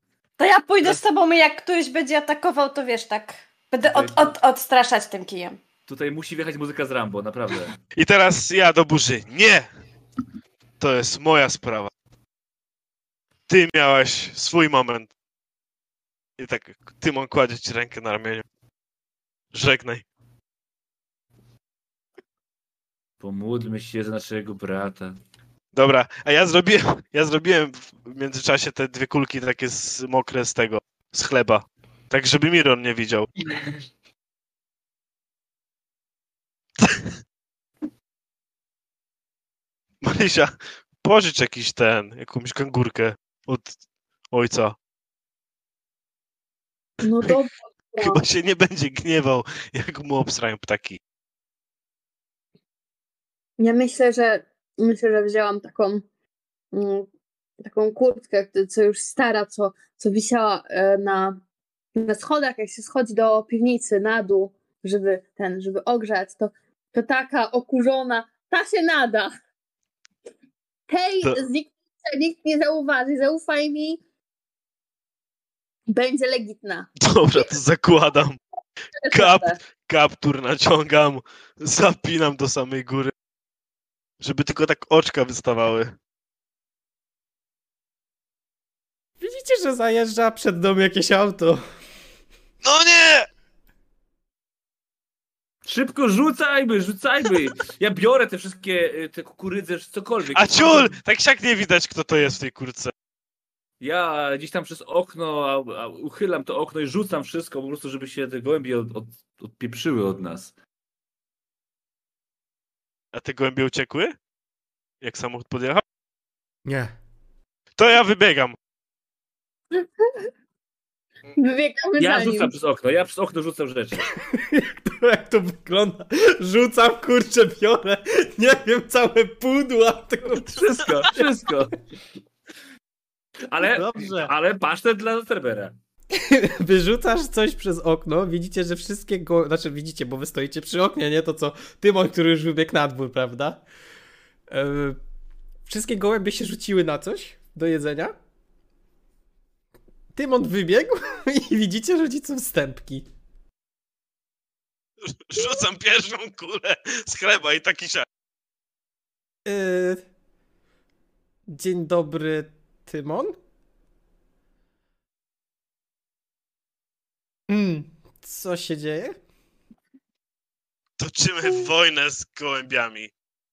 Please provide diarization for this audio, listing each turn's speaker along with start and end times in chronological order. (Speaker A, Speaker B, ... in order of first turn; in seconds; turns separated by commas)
Speaker A: 0.4-5.6, Speaker B: 3.8-4.4, Speaker B: 5.9-7.8, Speaker C: 8.0-9.7, Speaker C: 10.8-11.9, Speaker C: 13.5-15.1, Speaker C: 16.4-18.4, Speaker C: 19.5-20.0, Speaker B: 23.2-25.2, Speaker C: 25.7-33.3, Speaker C: 36.8-37.1, Speaker C: 40.0-43.7, Speaker C: 44.3-44.8, Speaker D: 47.0-48.2, Speaker C: 48.0-51.0, Speaker D: 53.6-56.0, Speaker D: 56.7-57.1, Speaker D: 57.6-61.4, Speaker D: 62.0-69.3, Speaker D: 70.9-74.0, Speaker D: 75.9-76.9, Speaker C: 77.0-78.4, Speaker D: 79.0-79.6, Speaker C: 79.1-83.1, Speaker C: 84.2-85.9, Speaker E: 89.2-91.6, Speaker C: 92.6-93.3, Speaker B: 95.7-101.0, Speaker C: 100.3-102.9, Speaker B: 103.8-110.5, Speaker C: 113.1-114.2, Speaker C: 115.0-115.8, Speaker E: 116.7-116.9, Speaker C: 117.8-118.6, Speaker D: 121.4-122.5, Speaker B: 122.0-124.1, Speaker E: 124.2-131.3, Speaker B: 130.3-131.8, Speaker B: 133.5-135.7, Speaker E: 133.6-134.3, Speaker E: 136.1-143.7, Speaker E: 144.5-145.0, Speaker E: 145.7-148.2, Speaker E: 150.2-153.1, Speaker C: 155.1-158.1, Speaker E: 159.5-160.0, Speaker E: 161.5-163.4, Speaker E: 167.5-169.2, Speaker C: 171.0-173.1